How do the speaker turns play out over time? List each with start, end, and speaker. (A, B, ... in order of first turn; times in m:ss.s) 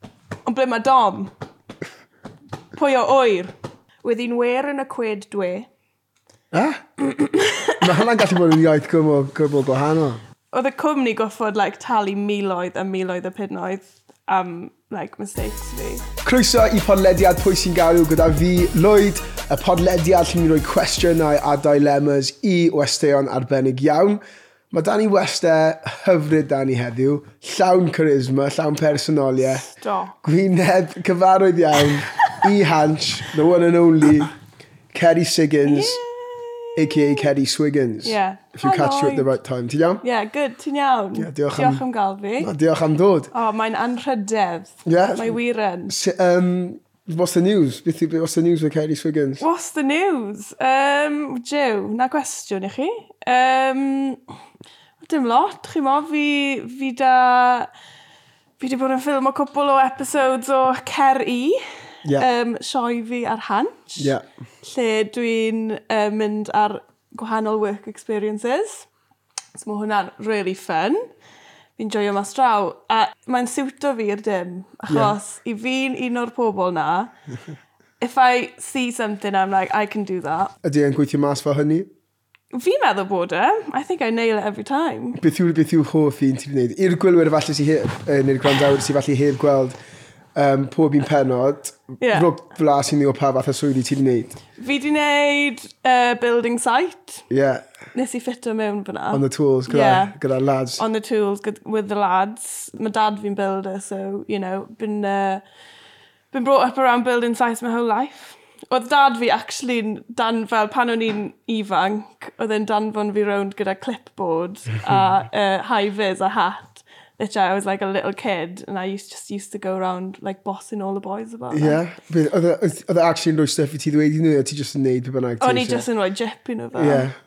0:00.4-0:01.3 A
0:02.7-0:03.5 A
0:04.0-0:05.7 A
0:06.5-0:06.8 B
0:07.0-0:07.8 A
0:07.8-0:10.2 B
0:10.5-0:16.0 A
0:16.2-0:29.7 B
0:29.5-0:30.1 A
0:30.2-0:34.3 B
0:34.9-0:36.0 B
0:35.6-0:37.3 A
0:36.8-0:40.0 B
0:38.0-0:39.3 A
0:40.0-0:42.5 A
0:41.2-0:41.8 B
0:42.4-0:43.3 B
0:43.3-0:45.9 A
0:44.8-0:49.4 B
0:49.4-0:54.2 A
0:55.0-0:57.7 A
0:58.6-1:01.6 A
1:02.2-1:08.9 A
1:04.0-1:04.2 B
1:09.5-1:11.1 A
1:11.8-1:17.1 A
1:14.9-1:15.1 B
1:18.0-1:20.5 A
1:20.6-1:21.9 B
1:22.5-1:25.2 A
1:25.2-1:29.8 B
1:30.3-1:34.4 B
1:32.0-1:32.3 A
1:34.6-1:37.2 A
1:37.3-1:37.6 B
1:37.9-1:40.1 A
1:39.1-1:40.8 B
1:40.8-1:45.4 A
1:46.3-2:01.8 A
2:01.5-2:05.8 B
2:05.4-2:07.1 A
2:06.7-2:07.1 B